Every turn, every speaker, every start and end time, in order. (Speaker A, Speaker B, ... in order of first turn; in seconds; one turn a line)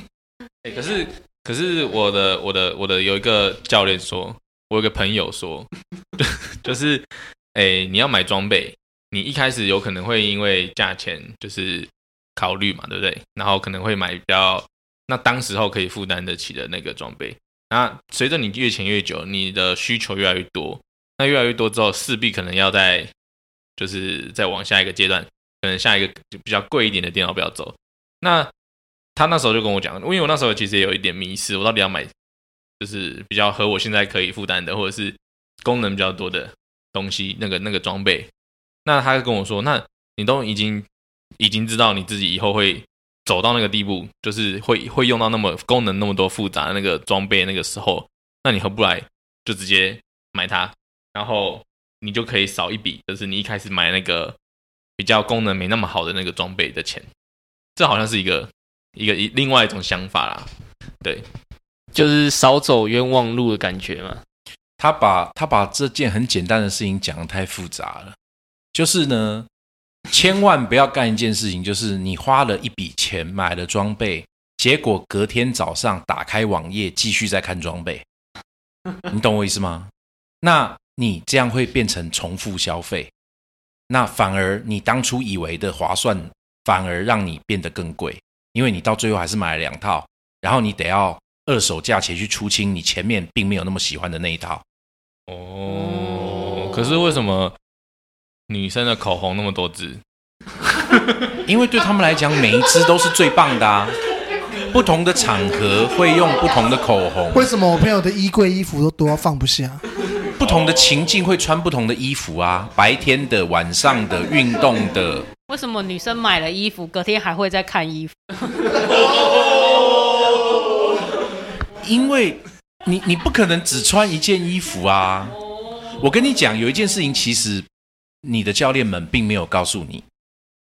Speaker A: 0.6-23.1
Speaker A: 23.8-28.5
Speaker A: 29.2-32.1
Speaker A: 32.8-38.3
Speaker A: 38.9-40.9
Speaker A: 41.4-54.4
Speaker A: 55.0-57.1
Speaker A: 57.8-60.5
Speaker B: 61.9-64.2
Speaker C: 64.8-68.2
Speaker C: 68.7-69.5
Speaker C: 70.1-78.0
Speaker C: 79.1-79.9
Speaker C: 80.4-83.1
Speaker C: 83.9-94.6
Speaker A: 95.3-97.5
Speaker A: 98.5-100.0
Speaker C: 101.5-104.0
Speaker C: 104.7-107.5
Speaker D: 107.3-109.8
Speaker C: 110.3-115.3
Speaker E: 115.5-118.2
Speaker C: 121.8-127.7
Speaker C: 128.2-130.1